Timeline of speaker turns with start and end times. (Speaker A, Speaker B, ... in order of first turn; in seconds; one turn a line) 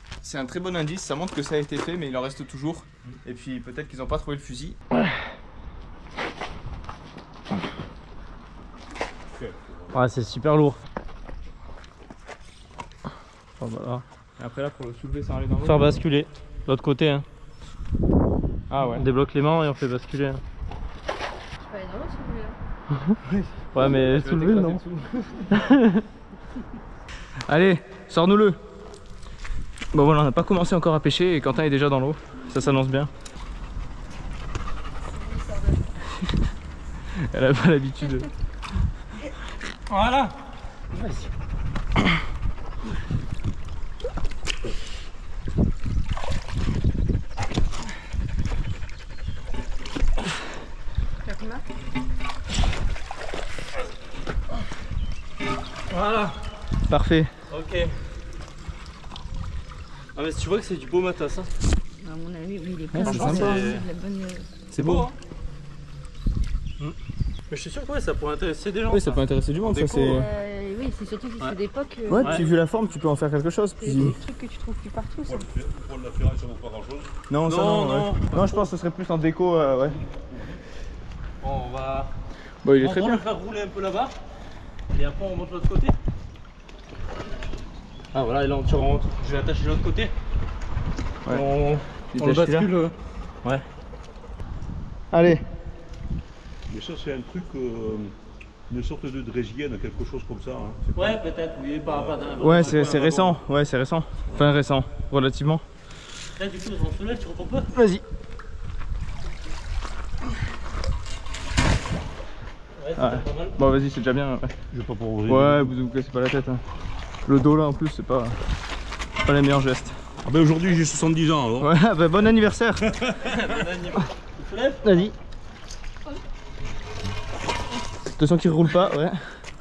Speaker A: 0.2-4.8
Speaker B: 9.9-10.8
Speaker B: 13.6-14.0
Speaker A: 14.4-16.0
Speaker B: 15.6-17.2
Speaker A: 18.7-19.1
Speaker B: 18.8-20.4
Speaker C: 21.6-22.6
Speaker A: 23.2-25.7
Speaker B: 23.7-24.8
Speaker B: 25.5-26.0
Speaker A: 27.5-28.6
Speaker A: 29.9-33.1
Speaker C: 35.2-35.8
Speaker A: 37.1-38.3
Speaker B: 39.9-40.3
Speaker B: 40.9-41.3
Speaker C: 51.2-51.6
Speaker B: 55.9-56.4
Speaker A: 56.9-57.3
Speaker B: 57.5-57.9
Speaker B: 60.1-61.5
Speaker C: 62.0-64.5
Speaker A: 62.9-63.7
Speaker B: 63.0-63.8
Speaker A: 64.7-65.1
Speaker B: 64.8-65.1
Speaker B: 67.5-69.2
Speaker A: 68.9-70.3
Speaker B: 69.7-70.2
Speaker C: 70.0-72.5
Speaker A: 72.1-74.2
Speaker B: 72.1-72.4
Speaker C: 73.8-75.5
Speaker D: 75.3-77.1
Speaker A: 77.3-80.0
Speaker B: 77.4-78.7
Speaker B: 81.4-82.1
Speaker A: 82.6-83.2
Speaker B: 82.8-84.1
Speaker B: 84.9-85.9
Speaker B: 88.1-90.1
Speaker B: 91.3-93.6
Speaker A: 92.1-92.7
Speaker A: 95.1-95.4
Speaker D: 96.7-98.1
Speaker D: 98.7-101.1
Speaker B: 100.9-103.4
Speaker A: 102.4-105.6
Speaker B: 106.3-107.7
Speaker A: 107.7-108.0
Speaker B: 112.8-113.5
Speaker A: 113.0-114.5
Speaker D: 114.7-115.7
Speaker A: 115.3-116.6
Speaker A: 117.2-118.4
Speaker A: 119.2-120.0
Speaker D: 120.2-121.7
Speaker A: 121.6-123.0
Speaker B: 123.0-125.0
Speaker A: 124.8-125.1
Speaker A: 128.1-129.2